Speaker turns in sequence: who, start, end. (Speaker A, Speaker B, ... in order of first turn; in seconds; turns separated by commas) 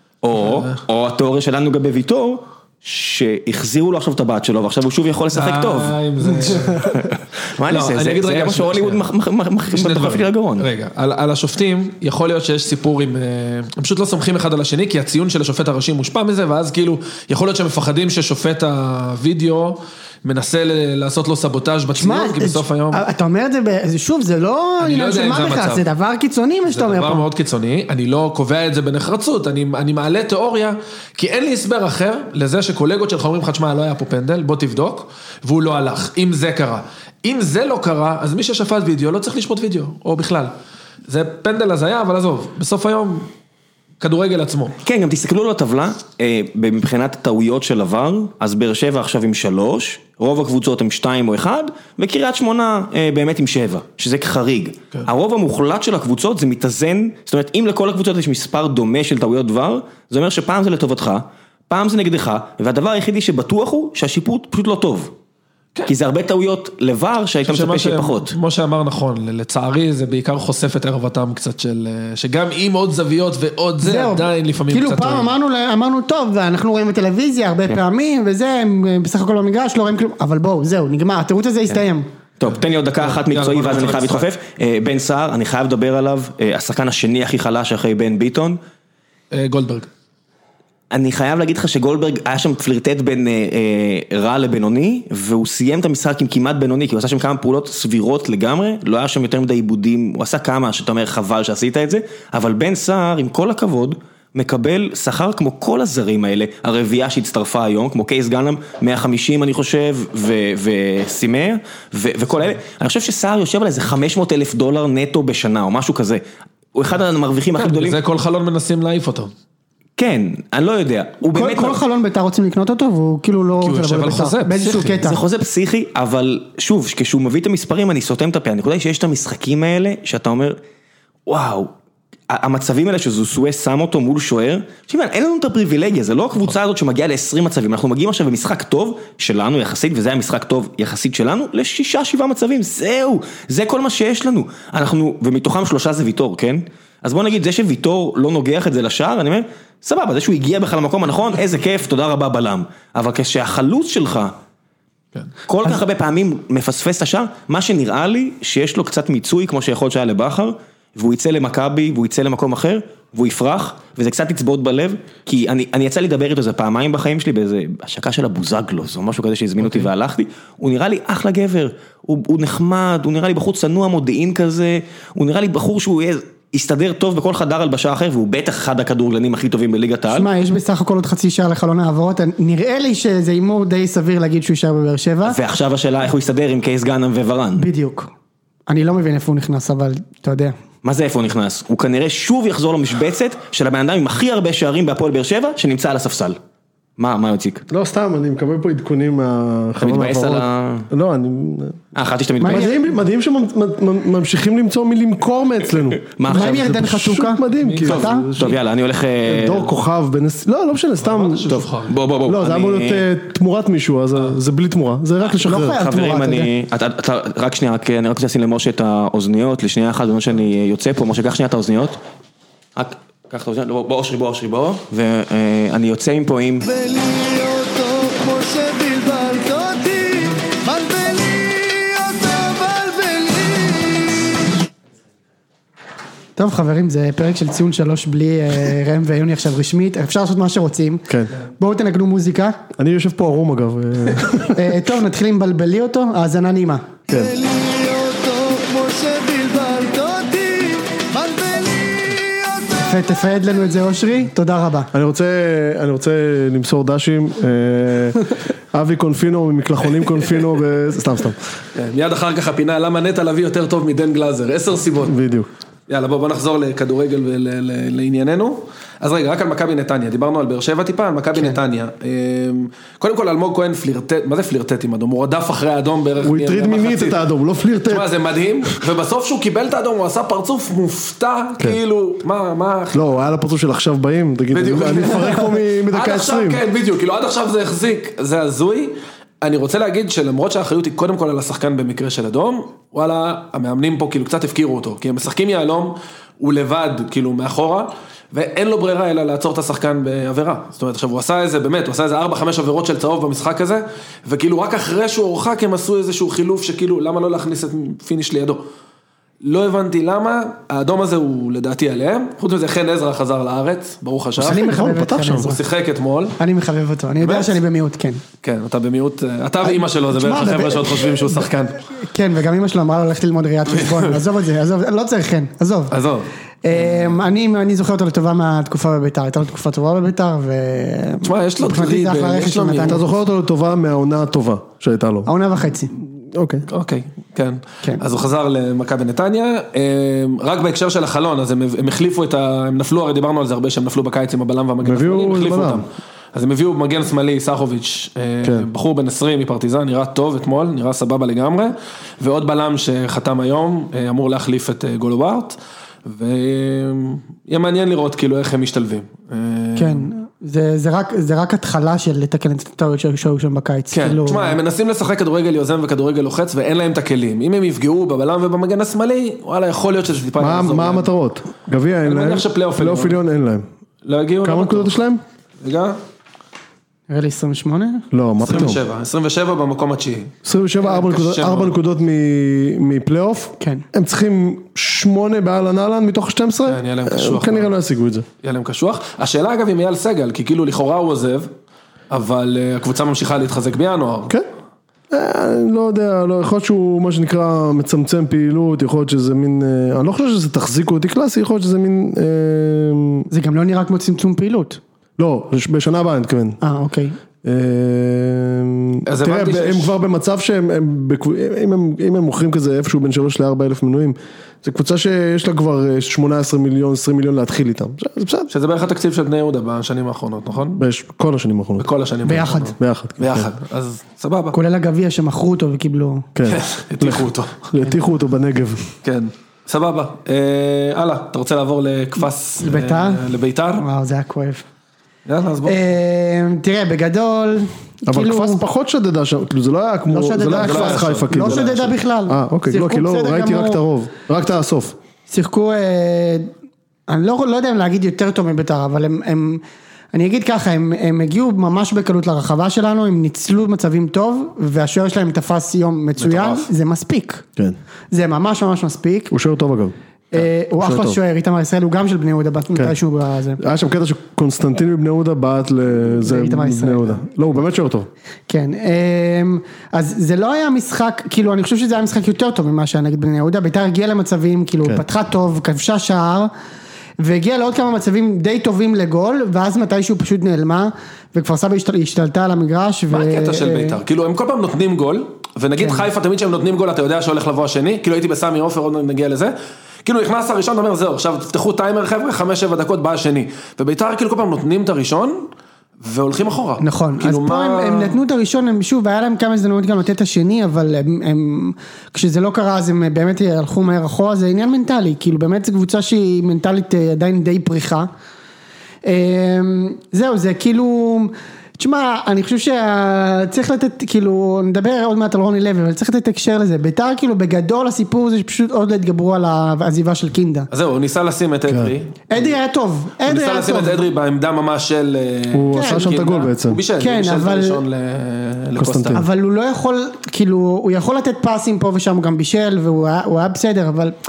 Speaker A: 0.2-10.7, Speaker B: 0.3-0.7, Speaker B: 5.3-7.1, Speaker B: 7.7-9.1, Speaker B: 9.7-23.0, Speaker C: 21.9-27.2, Speaker B: 24.8-25.8, Speaker B: 26.7-40.5, Speaker B: 41.1-43.3, Speaker B: 44.0-44.8, Speaker A: 44.8-65.1, Speaker A: 65.9-68.3, Speaker B: 67.4-75.3, Speaker C: 73.8-82.1, Speaker A: 82.4-88.6, Speaker B: 83.0-84.3, Speaker B: 89.3-89.9, Speaker A: 90.9-116.2, Speaker A: 116.7-118.0, Speaker B: 117.6-119.3, Speaker A: 120.0-121.8, Speaker C: 121.3-125.2, Speaker B: 123.6-125.1, Speaker A: 125.0-130.6, Speaker A: 131.3-131.7, Speaker A: 132.3-154.3, Speaker A: 155.4-180.3, Speaker C: 180.1-185.4, Speaker A: 185.2-187.7, Speaker C: 187.6-188.1, Speaker C: 188.7-190.5, Speaker A: 190.8-196.4, Speaker A: 197.0-197.6, Speaker D: 197.7-201.8, Speaker A: 199.8-200.9, Speaker A: 201.9-202.8, Speaker C: 202.4-202.8, Speaker D: 202.4-208.6, Speaker A: 206.2-206.7, Speaker C: 206.3-208.3, Speaker B: 207.5-208.0, Speaker A: 208.0-209.7, Speaker D: 209.2-211.7, Speaker B: 211.0-211.9, Speaker A: 211.9-213.0, Speaker D: 212.2-215.8, Speaker C: 215.4-216.5, Speaker A: 215.5-222.0, Speaker A: 222.8-226.7, Speaker E: 226.6-234.2, Speaker C: 236.4-241.0, Speaker C: 241.6-242.6, Speaker D: 242.8-244.8, Speaker C: 244.5-246.9, Speaker E: 247.1-253.3, Speaker C: 252.8-254.9, Speaker D: 254.9-261.4, Speaker B: 261.7-265.1, Speaker D: 265.0-265.5, Speaker B: 265.9-277.2, Speaker D: 276.2-278.1, Speaker B: 277.9-283.2, Speaker D: 282.9-286.6, Speaker B: 284.5-308.6, Speaker B: 309.4-316.4, Speaker C: 314.4-315.6, Speaker D: 314.4-315.6, Speaker C: 316.4-318.2, Speaker B: 317.2-317.6, Speaker B: 318.4-321.8, Speaker C: 319.7-321.4, Speaker C: 321.9-325.9, Speaker B: 323.7-324.2, Speaker B: 325.9-326.3, Speaker C: 326.6-333.0, Speaker B: 331.2-333.0, Speaker D: 332.8-335.3, Speaker C: 335.2-335.9, Speaker D: 336.3-336.6, Speaker B: 336.7-360.1, Speaker D: 344.8-345.8, Speaker C: 359.8-364.6, Speaker B: 363.9-371.1, Speaker D: 370.4-373.6, Speaker B: 372.0-373.2, Speaker B: 374.0-374.9, Speaker D: 374.4-375.2, Speaker B: 375.6-376.0, Speaker C: 377.1-378.1, Speaker D: 378.1-378.8, Speaker B: 378.4-381.7, Speaker D: 380.4-388.2, Speaker B: 386.6-387.7, Speaker B: 388.4-391.5, Speaker B: 392.1-394.3, Speaker D: 395.1-403.3, Speaker C: 403.3-404.8, Speaker D: 405.2-406.6, Speaker C: 406.6-407.1, Speaker D: 407.4-418.5, Speaker B: 409.1-410.0, Speaker B: 418.5-420.8, Speaker D: 420.8-421.9, Speaker B: 421.8-424.6, Speaker C: 422.2-422.7, Speaker D: 422.8-423.5, Speaker C: 424.5-426.3, Speaker D: 426.3-428.9, Speaker B: 426.5-427.7, Speaker B: 429.0-433.9, Speaker C: 432.6-433.2, Speaker C: 433.8-434.6, Speaker B: 435.2-435.8, Speaker C: 435.6-438.6, Speaker D: 438.1-444.9, Speaker C: 440.1-443.8, Speaker B: 440.5-441.9, Speaker C: 445.3-446.5, Speaker C: 447.1-457.4, Speaker B: 456.2-456.7, Speaker C: 458.1-459.3, Speaker D: 459.3-459.9, Speaker C: 460.3-463.6, Speaker D: 460.8-461.2, Speaker D: 463.6-468.1, Speaker C: 466.2-467.3, Speaker C: 468.5-476.5, Speaker C: 477.2-484.0, Speaker B: 483.1-495.5, Speaker C: 485.8-486.1, Speaker B: 496.0-498.2, Speaker C: 496.8-508.1, Speaker C: 509.0-520.7, Speaker B: 520.7-522.5, Speaker D: 521.7-521.9, Speaker C: 522.3-524.0, Speaker B: 523.2-529.2, Speaker D: 525.5-526.8, Speaker C: 525.7-526.2, Speaker C: 527.0-527.8, Speaker D: 528.8-529.2, Speaker C: 529.1-534.1